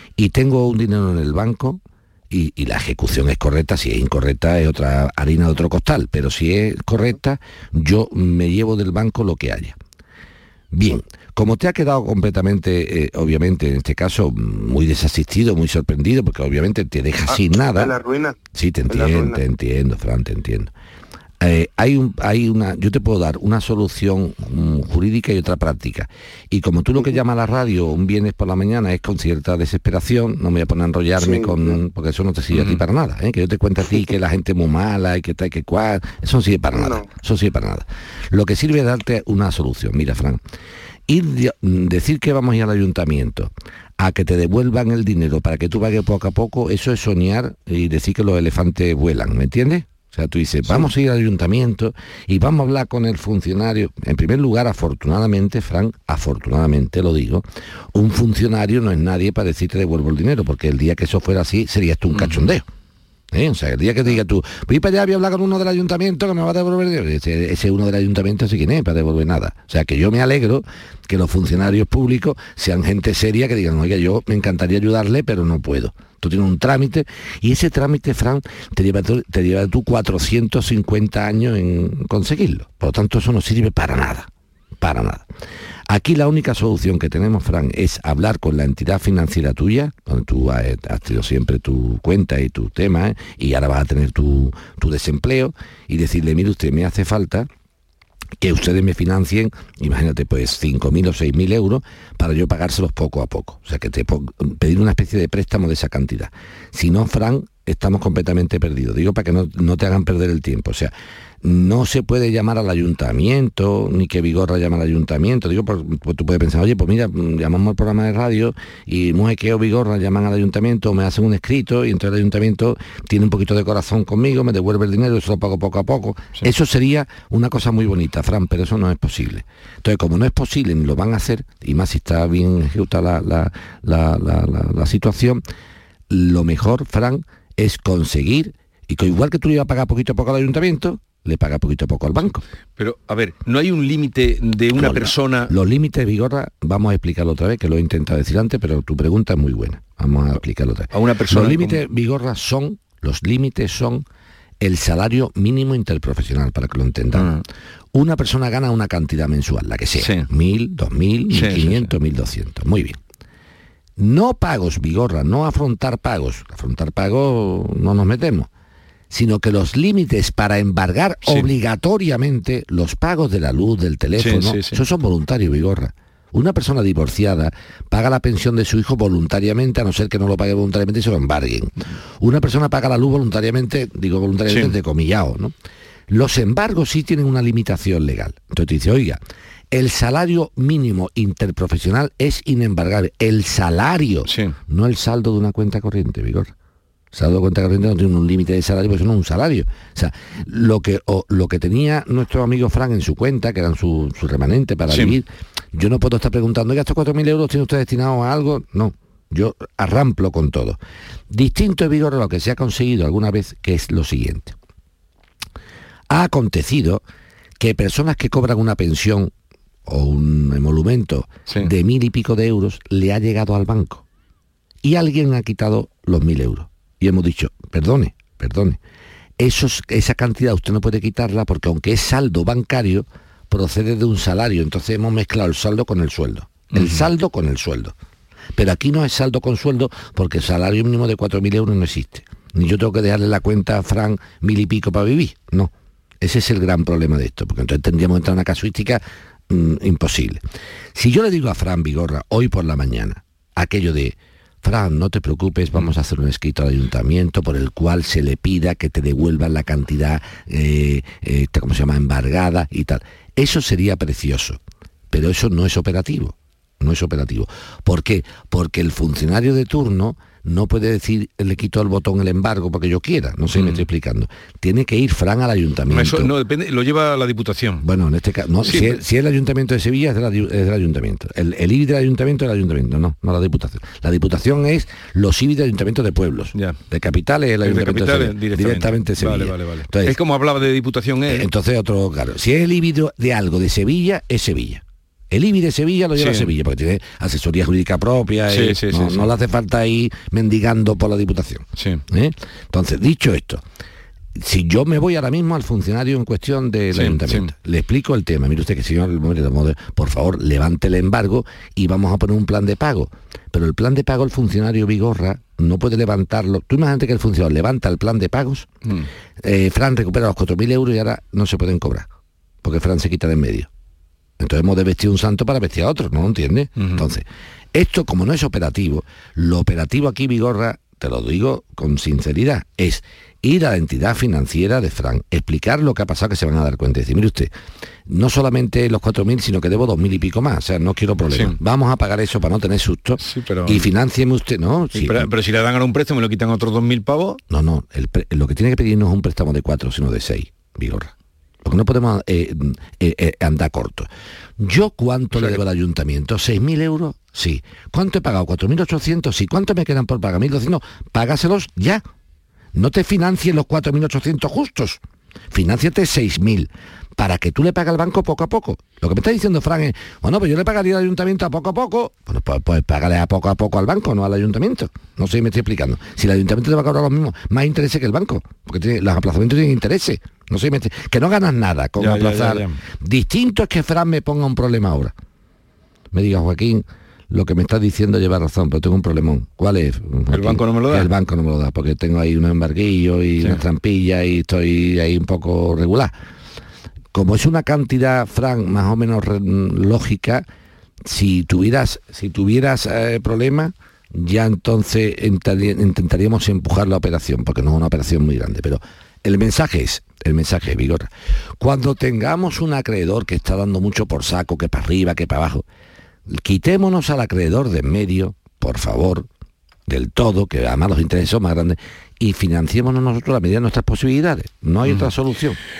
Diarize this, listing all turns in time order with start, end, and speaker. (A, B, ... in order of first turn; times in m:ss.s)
0:00.2-0:09.8 A
0:10.7-0:17.9 A
0:17.3-0:18.4 B
0:18.5-0:20.7 A
0:18.9-0:19.4 B
0:21.4-0:40.4 A
0:31.2-0:31.8 B
0:32.5-0:32.8 C
0:36.7-0:37.1 B
0:41.1-1:02.6 A
1:02.1-1:02.5 C
1:03.3-1:24.3 A
1:24.8-1:25.2 A
1:25.9-1:37.5 A
1:38.4-2:15.4 A
2:16.1-2:22.4 A
2:22.8-2:25.5 C
2:24.7-2:34.0 A
2:30.9-2:31.8 C
2:34.6-2:37.3 A
2:37.1-2:37.4 C
2:37.9-2:43.0 A
2:40.0-2:40.3 C
2:41.3-2:41.9 C
2:44.0-2:48.5 A
2:49.1-3:05.5 A
2:51.2-2:51.5 C
2:54.2-2:54.8 C
3:04.5-3:04.7 C
3:06.1-3:09.2 A
3:09.7-3:16.5 A
3:14.3-3:14.5 C
3:17.1-3:30.8 A
3:24.9-3:25.2 C
3:31.3-3:34.6 A
3:36.1-3:37.0 A
3:37.6-3:39.3 A
3:39.8-3:44.0 A
3:44.8-3:48.8 A
3:49.4-3:57.9 A
3:56.7-3:57.0 C
3:58.6-4:10.4 A
4:10.9-4:24.6 A
4:25.1-4:36.3 A
4:33.5-4:33.8 C
4:35.9-4:37.8 C
4:37.8-4:50.2 A
4:38.6-4:39.0 C
4:47.6-4:51.5 C
4:51.3-5:03.6 A
4:56.2-4:56.5 C
4:58.5-4:59.3 C
5:01.8-5:02.0 C
5:04.3-5:18.7 A
5:06.9-5:07.5 C
5:19.4-5:22.1 A
5:22.6-5:23.7 A
5:24.4-5:37.5 A
5:26.8-5:27.0 C
5:38.1-5:45.3 A
5:43.2-5:43.9 C
5:44.9-5:47.4 C
5:47.5-5:51.1 A
5:51.6-6:02.0 A
5:55.4-5:55.6 C
6:02.7-6:05.0 A
6:05.5-6:25.1 A
6:22.0-6:22.8 C
6:26.1-6:36.1 A
6:30.3-6:31.1 C
6:37.1-6:40.4 A
6:41.0-6:51.1 A
6:51.6-6:55.6 A
6:56.3-6:59.3 A
6:59.9-7:05.6 A
7:04.8-7:05.1 C